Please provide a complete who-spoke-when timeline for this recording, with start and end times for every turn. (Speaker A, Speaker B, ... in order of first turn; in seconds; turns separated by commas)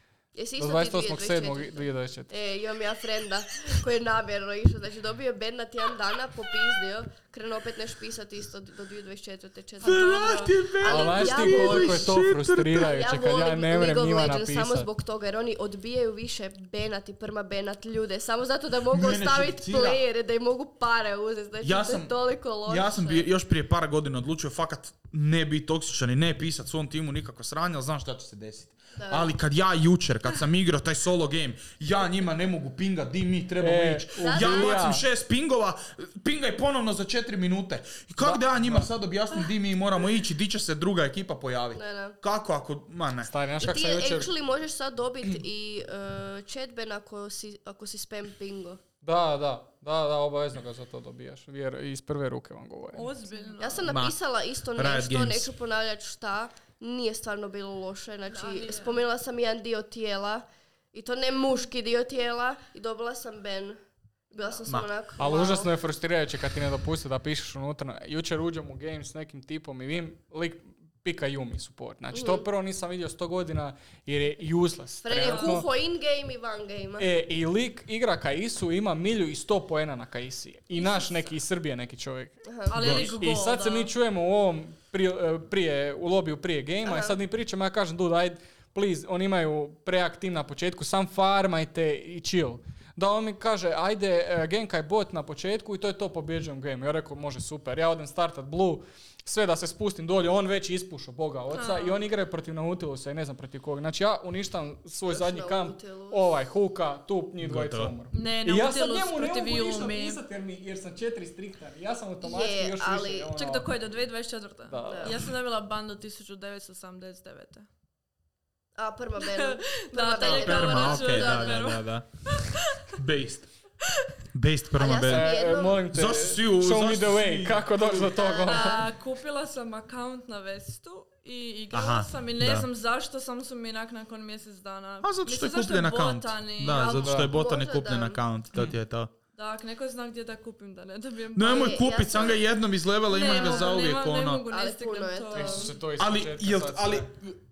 Speaker A: 0.3-12.1, Speaker B: 0.6-2.3, Speaker C: 9.8-12.9, Speaker B: 10.8-14.9, Speaker A: 12.8-23.4, Speaker C: 18.9-20.0, Speaker C: 21.6-43.3, Speaker A: 28.9-29.3, Speaker B: 33.6-35.0, Speaker A: 34.2-34.9, Speaker B: 38.2-38.9, Speaker A: 41.8-42.2, Speaker B: 43.2-44.3, Speaker A: 43.6-48.8, Speaker B: 49.0-53.1, Speaker D: 52.9-54.0, Speaker A: 53.6-63.8, Speaker C: 53.9-54.2, Speaker C: 54.8-55.5, Speaker D: 58.3-59.0, Speaker A: 64.3-65.7, Speaker B: 65.2-75.7, Speaker A: 72.1-72.5, Speaker A: 75.0-77.1, Speaker D: 75.2-75.6, Speaker B: 77.0-113.7, Speaker A: 80.8-81.3, Speaker A: 82.5-82.8, Speaker D: 82.7-83.9, Speaker C: 82.8-83.1, Speaker A: 86.8-87.2, Speaker D: 101.5-102.0, Speaker A: 105.0-106.3, Speaker C: 107.4-107.9, Speaker D: 108.1-110.2, Speaker A: 112.2-113.3, Speaker D: 113.4-117.7, Speaker B: 114.7-115.3, Speaker A: 114.9-115.2, Speaker A: 118.8-121.7, Speaker D: 119.2-122.8, Speaker C: 120.2-122.0, Speaker C: 122.9-123.5, Speaker C: 124.3-125.3, Speaker A: 124.7-125.9, Speaker B: 125.0-128.9, Speaker C: 125.9-128.1, Speaker A: 128.1-128.9, Speaker D: 128.2-137.2, Speaker C: 131.7-132.7, Speaker C: 135.0-139.1, Speaker A: 136.8-138.2, Speaker B: 136.9-137.3, Speaker D: 139.3-141.8, Speaker C: 141.3-144.4, Speaker A: 141.4-142.5, Speaker D: 143.1-145.8, Speaker A: 143.2-143.8, Speaker A: 144.4-145.7, Speaker B: 145.3-147.1, Speaker C: 146.0-147.4